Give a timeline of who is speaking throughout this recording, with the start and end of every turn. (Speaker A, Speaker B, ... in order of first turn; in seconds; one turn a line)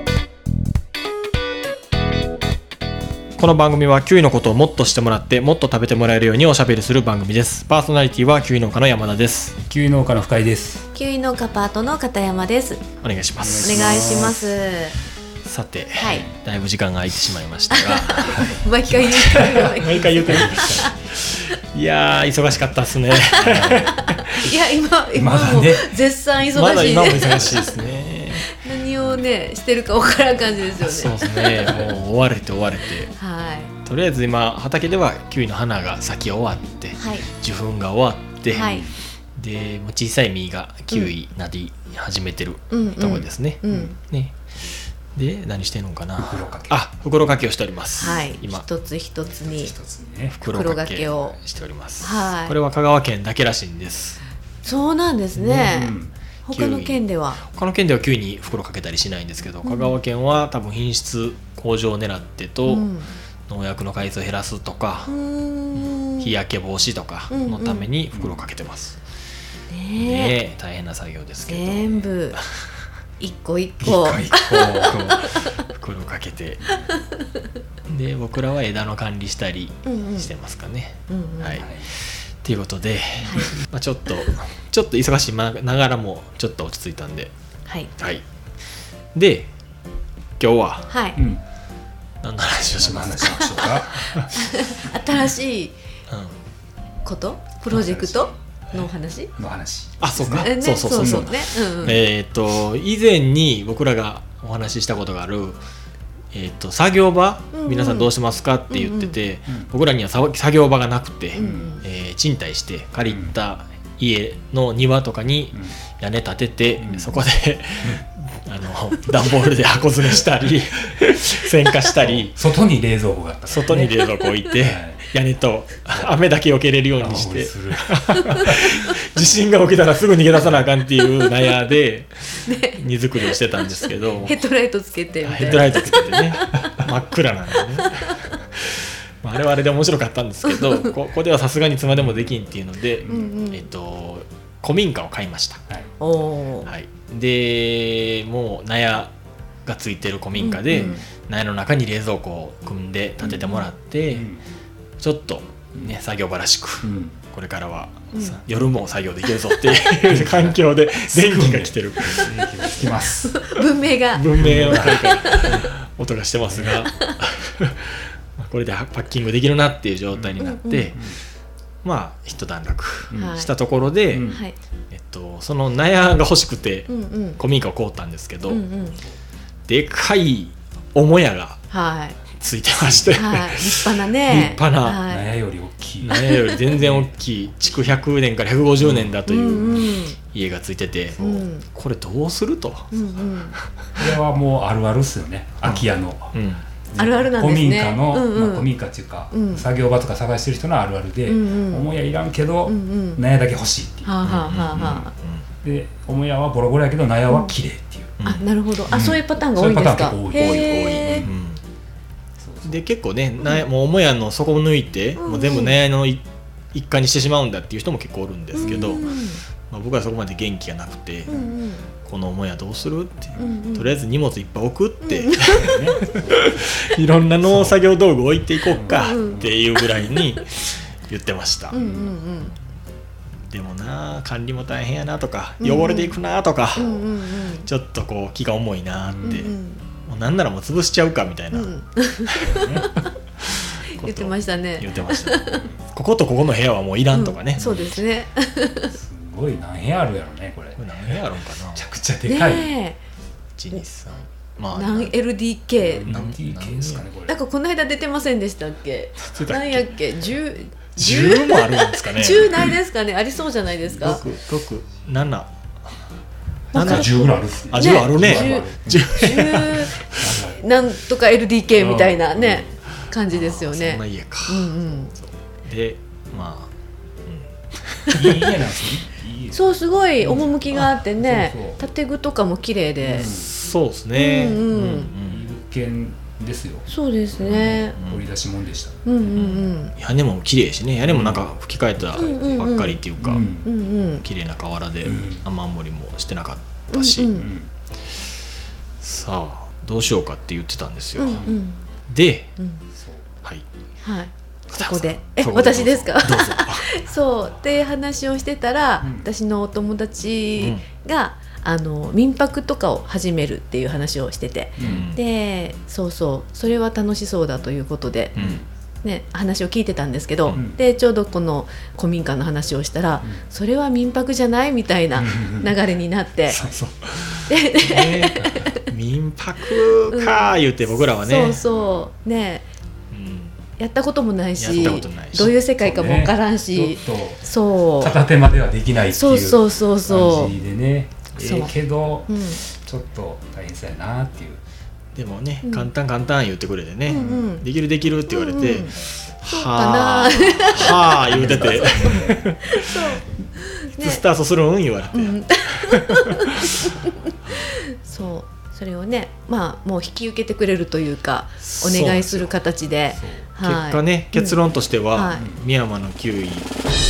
Speaker A: 3.4-9.6
Speaker B: 9.7-10.9
Speaker C: 10.9-12.8
Speaker A: 13.0-14.1
Speaker B: 13.4-14.4
Speaker C: 13.6-15.0
Speaker A: 15.4-24.0
Speaker C: 16.0-16.3
Speaker C: 17.7-20.9
Speaker B: 19.6-20.9
Speaker C: 23.4-27.7
Speaker B: 23.4-24.1
Speaker B: 25.1-25.9
Speaker A: 26.5-28.6
Speaker C: 28.4-31.9
Speaker A: 30.8-33.1
Speaker B: 31.7-31.9
Speaker C: 33.1-33.7
Speaker A: 33.9-38.7
Speaker C: 36.9-37.3
Speaker B: 38.5-38.9
Speaker C: 38.5-38.9
Speaker A: 39.4-44.4
Speaker C: 42.7-43.9
Speaker A: 45.1-48.6
Speaker B: 46.2-46.8
Speaker C: 48.0-49.7
Speaker B: 49.5-50.4
Speaker A: 50.4-54.2
Speaker C: 50.4-51.4
Speaker C: 52.0-52.5
Speaker C: 54.6-57.4
Speaker B: 55.3-56.1
Speaker A: 56.5-62.9
Speaker C: 59.6-60.0
Speaker C: 62.6-63.1
Speaker A: 63.5-65.1
Speaker C: 65.1-66.3
Speaker A: 65.7-69.0
Speaker C: 67.3-67.9
Speaker B: 68.1-68.4
Speaker C: 69.7-70.4
Speaker A: 70.0-72.6
Speaker C: 71.5-72.4
Speaker C: 73.2-75.5
Speaker B: 73.8-75.1
Speaker A: 74.5-76.6
Speaker C: 76.7-77.2
Speaker A: 77.9-87.3
Speaker C: 79.8-80.3
Speaker C: 81.1-81.6
Speaker B: 81.5-81.9
Speaker C: 83.2-83.5
Speaker C: 87.7-87.9
Speaker A: 88.0-88.2
Speaker A: 89.1-89.5
Speaker A: 90.4-90.9
Speaker C: 90.9-91.2
Speaker B: 91.1-91.4
Speaker A: 92.2-94.2
Speaker B: 92.7-94.0
Speaker C: 93.3-95.8
Speaker A: 96.1-96.3
Speaker C: 97.0-99.3
Speaker B: 97.7-98.3
Speaker B: 99.4-101.3
Speaker A: 100.0-105.6
Speaker C: 100.3-102.0
Speaker A: 106.3-122.3
Speaker C: 107.5-108.1
Speaker C: 108.7-109.2
Speaker C: 111.3-111.8
Speaker B: 111.3-111.7
Speaker B: 113.1-113.3
Speaker B: 116.8-117.2
Speaker B: 121.9-124.0
Speaker A: 123.5-134.4
Speaker C: 123.8-124.5
Speaker B: 124.6-125.0
Speaker B: 125.9-126.2
Speaker B: 127.0-128.6
Speaker C: 131.0-131.3
Speaker C: 132.4-136.9
Speaker B: 133.9-134.3
Speaker A: 135.2-145.6
Speaker B: 135.4-135.9
Speaker C: 137.6-138.3
Speaker C: 140.5-140.9
Speaker B: 143.0-143.3
Speaker C: 143.0-143.7
Speaker C: 146.0-146.7
Speaker A: 146.6-149.1
Speaker A: 149.6-154.3
Speaker C: 150.4-151.0
Speaker B: 154.1-154.4
Speaker A: 155.0-162.3
Speaker B: 156.8-157.2
Speaker C: 158.1-158.4
Speaker B: 159.9-163.4
Speaker C: 163.2-165.7
Speaker A: 164.1-171.0
Speaker B: 164.3-165.7
Speaker B: 166.5-166.9
Speaker B: 170.1-171.2
Speaker C: 170.4-170.9
Speaker A: 171.8-174.3
Speaker B: 173.1-173.3
Speaker C: 173.2-173.5
Speaker B: 174.1-174.4
Speaker C: 174.3-174.6
Speaker A: 174.9-178.6
Speaker C: 176.9-177.4
Speaker C: 178.5-179.0
Speaker A: 179.7-181.6
Speaker C: 181.7-182.2
Speaker A: 182.3-185.0
Speaker B: 182.8-183.2
Speaker C: 183.1-185.3
Speaker B: 185.0-187.1
Speaker A: 186.0-194.1
Speaker C: 186.3-186.6
Speaker B: 188.8-189.2
Speaker C: 189.2-190.2
Speaker C: 191.2-191.7
Speaker C: 192.9-193.6
Speaker B: 193.9-196.3
Speaker A: 195.6-196.7
Speaker B: 196.9-204.2
Speaker C: 197.0-198.7
Speaker C: 199.3-199.7
Speaker C: 201.2-201.9
Speaker C: 202.6-203.2
Speaker C: 204.0-205.1
Speaker A: 204.2-205.4
Speaker B: 204.7-205.1
Speaker B: 205.6-208.2
Speaker A: 208.2-208.4
Speaker C: 208.2-211.3
Speaker B: 208.9-211.3
Speaker A: 210.3-211.6
Speaker B: 212.4-212.8
Speaker A: 212.6-219.1
Speaker C: 215.2-215.8
Speaker C: 218.5-219.4
Speaker B: 218.6-219.0
Speaker A: 219.7-221.3
Speaker B: 221.3-221.6
Speaker C: 221.3-221.8
Speaker A: 222.0-231.8
Speaker B: 223.3-223.6
Speaker C: 223.3-223.9
Speaker C: 225.0-225.8
Speaker B: 225.6-226.3
Speaker B: 227.4-227.8
Speaker B: 228.7-229.5
Speaker C: 228.8-230.4
Speaker C: 231.7-232.5
Speaker B: 231.7-232.2
Speaker A: 233.5-239.5
Speaker C: 235.6-236.2
Speaker C: 236.7-237.7
Speaker B: 239.0-239.5
Speaker C: 239.2-239.8
Speaker A: 240.0-241.7
Speaker C: 241.5-243.0
Speaker B: 242.4-242.9
Speaker C: 243.9-245.7
Speaker A: 244.0-248.0
Speaker B: 245.5-245.8
Speaker C: 247.1-248.9
Speaker B: 248.9-251.2
Speaker A: 250.8-251.8
Speaker B: 251.7-252.8
Speaker C: 252.2-253.0
Speaker A: 253.6-255.1
Speaker C: 254.7-256.1
Speaker B: 255.8-257.4
Speaker A: 256.1-257.1
Speaker C: 257.3-264.2
Speaker A: 259.3-259.9
Speaker A: 260.9-262.7
Speaker A: 264.0-265.5
Speaker B: 266.7-270.6
Speaker A: 266.7-270.3
Speaker C: 266.8-275.1
Speaker B: 271.7-272.7
Speaker A: 273.3-276.7
Speaker A: 277.2-277.5
Speaker B: 278.1-281.8
Speaker C: 279.5-283.3
Speaker B: 283.0-283.5
Speaker A: 283.3-285.4
Speaker C: 284.1-285.1
Speaker B: 285.3-289.1
Speaker C: 286.9-288.0
Speaker A: 287.4-288.2
Speaker C: 289.0-289.9
Speaker A: 289.3-293.4
Speaker B: 291.1-291.4
Speaker B: 292.0-292.6
Speaker C: 292.1-293.0
Speaker B: 293.2-293.7
Speaker C: 293.6-294.2
Speaker A: 294.1-297.3
Speaker B: 295.0-295.4
Speaker C: 296.9-297.5
Speaker B: 297.3-297.7
Speaker A: 299.0-301.5
Speaker C: 301.1-301.9
Speaker B: 301.3-301.6
Speaker A: 302.1-302.5
Speaker C: 302.6-302.9
Speaker B: 302.9-303.3
Speaker C: 304.0-318.3
Speaker A: 304.7-306.9
Speaker B: 309.0-309.3
Speaker A: 310.6-310.8
Speaker B: 314.8-315.1
Speaker A: 314.8-315.2
Speaker B: 318.3-318.6
Speaker A: 318.4-318.6
Speaker C: 319.0-326.6
Speaker B: 325.1-325.8
Speaker A: 326.5-331.6
Speaker C: 327.5-328.8
Speaker B: 327.9-328.7
Speaker C: 330.1-332.7
Speaker A: 333.1-333.6
Speaker C: 333.8-338.2
Speaker A: 334.6-335.5
Speaker B: 335.3-344.6
Speaker C: 339.1-340.6
Speaker C: 341.4-341.7
Speaker C: 342.3-342.6
Speaker A: 345.1-352.6
Speaker C: 345.6-345.9
Speaker C: 347.1-347.6
Speaker B: 347.1-347.4
Speaker C: 348.3-354.2
Speaker B: 351.3-352.4
Speaker A: 354.0-356.0
Speaker C: 355.1-364.6
Speaker A: 361.6-362.5
Speaker B: 363.1-363.5
Speaker A: 363.6-366.7
Speaker C: 365.1-365.4
Speaker B: 365.3-365.6